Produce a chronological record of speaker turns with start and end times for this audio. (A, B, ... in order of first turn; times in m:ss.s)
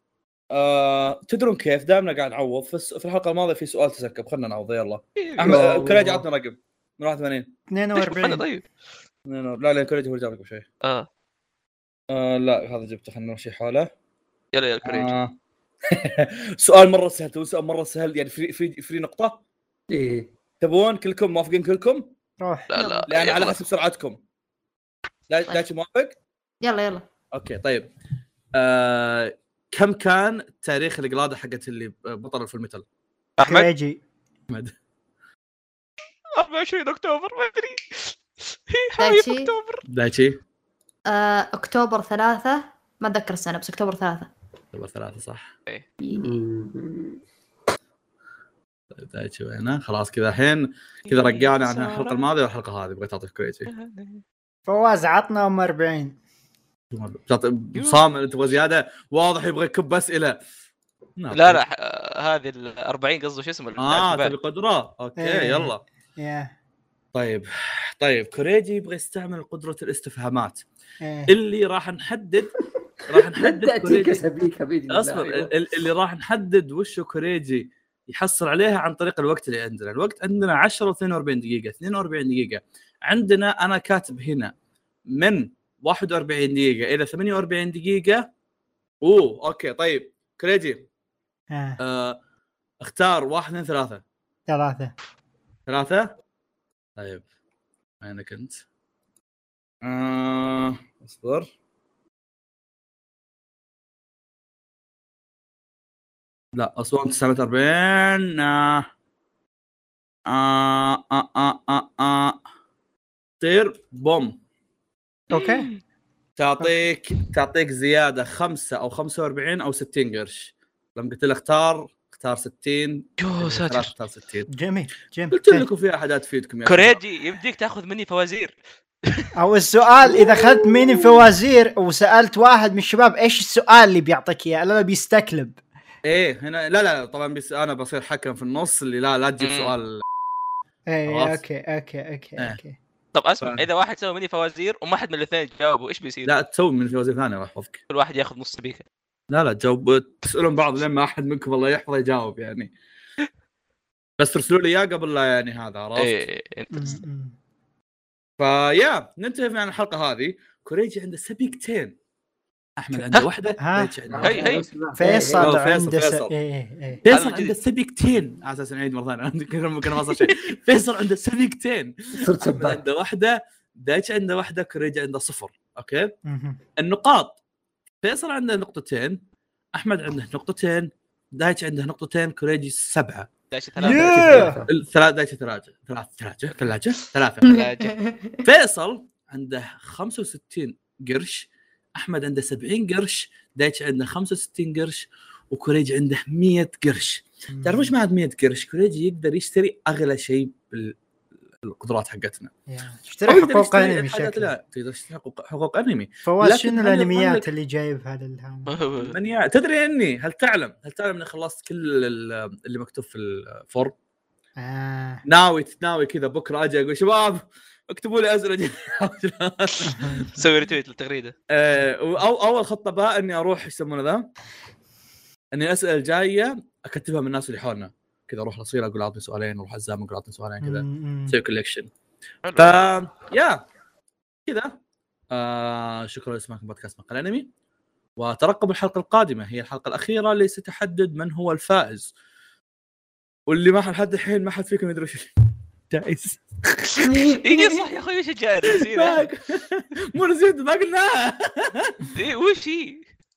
0:00.5-0:07.5 A
0:05.2-0:05.6 B
0:05.4-0:06.2 C
0:07.7-0:08.4 D
0:08.0-0:08.6 B
0:09.3-0:10.7 A
0:12.1-0:13.9 A
0:14.5-0:15.1 B
0:14.8-0:15.4 A
0:15.9-0:19.4 A
0:19.9-0:20.3 C
0:20.6-0:22.1 A
0:22.4-0:22.7 D
0:22.7-0:23.6 B
0:22.7-0:23.1 E
0:23.1-0:24.2 A
0:25.3-0:26.2 A
0:26.6-0:27.0 E
0:27.3-0:27.9 A
0:28.5-0:32.8 A
0:33.4-0:33.7 B
0:33.4-0:34.0 D
0:36.4-0:39.8 B
0:39.0-0:39.5 E
0:39.9-0:40.4 A
0:41.1-0:44.3 E
0:44.7-0:45.5 A
0:46.0-0:46.4 E
0:46.1-0:47.2 C
0:48.9-0:53.7 A
0:51.1-0:52.2 B
0:53.7-0:54.2 B
0:54.7-0:56.2 D
0:56.9-1:00.4 A
0:57.8-0:58.0 B
1:01.2-1:01.6 A
1:01.3-1:04.3 B
1:03.8-1:05.8 A
1:05.2-1:06.5 D
1:07.1-1:10.6 A
1:11.0-1:11.3 D
1:11.3-1:12.5 A
1:13.1-1:14.2 A
1:13.2-1:15.5 C
1:14.9-1:24.5 A
1:25.1-1:28.3 A
1:29.0-1:30.8 A
1:31.5-1:31.8 D
1:31.8-1:32.2 A
1:32.8-1:34.0 A
1:34.5-1:34.9 D
1:35.7-1:36.1 A
1:37.0-1:37.2 A
1:38.0-1:38.6 A
1:39.8-1:41.5 A
1:46.5-1:48.9 A
1:50.3-1:52.4 A
1:53.4-1:54.4 A
1:55.3-1:55.7 D
1:55.3-1:55.8 B
1:56.4-2:04.5 A
2:03.2-2:03.9 B
2:04.5-2:05.7 D
2:05.3-2:07.0 A
2:06.7-2:08.6 B
2:09.4-2:15.6 D
2:16.0-2:20.0 A
2:19.4-2:19.7 B
2:20.9-2:22.8 D
2:21.1-2:21.4 A
2:23.1-2:26.3 B
2:26.2-2:27.8 A
2:27.9-2:28.8 B
2:29.3-2:32.7 A
2:34.2-2:36.2 A
2:36.0-2:37.0 B
2:36.7-2:37.4 D
2:38.4-2:42.0 A
2:42.8-2:44.5 A
2:43.6-2:44.0 D
2:44.1-2:45.5 C
2:44.2-2:44.6 B
2:44.9-2:47.0 D
2:45.4-2:46.3 A
2:47.0-2:56.1 A
2:47.1-2:47.5 B
2:52.2-2:52.8 C
2:56.2-2:56.6 D
2:56.8-2:57.4 A
2:58.0-2:59.2 A
2:59.7-3:03.3 A
3:03.5-3:04.5 B
3:03.8-3:04.6 D
3:03.8-3:04.7 C
3:04.7-3:07.7 A
3:07.4-3:08.4 E
3:07.5-3:07.9 B
3:08.4-3:21.0 A
3:17.5-3:17.9 D
3:21.6-3:22.5 A
3:22.7-3:24.5 D
3:23.2-3:27.5 A
3:26.2-3:28.7 D
3:28.7-3:29.1 B
3:29.0-3:33.9 A
3:34.6-3:35.2 D
3:35.3-3:40.2 A
3:39.9-3:40.4 D
3:40.3-3:41.3 B
3:41.5-3:44.3 A
3:45.5-3:51.9 A
3:50.6-3:51.4 D
3:52.4-3:52.8 B
3:52.6-3:53.6 A
3:54.5-3:54.7 A
3:55.3-3:57.5 A
3:58.2-4:02.1 A
4:03.5-4:05.3 A
4:05.9-4:07.0 A
4:07.0-4:07.8 E
4:07.4-4:09.2 B
4:08.7-4:12.1 A
4:12.1-4:13.0 B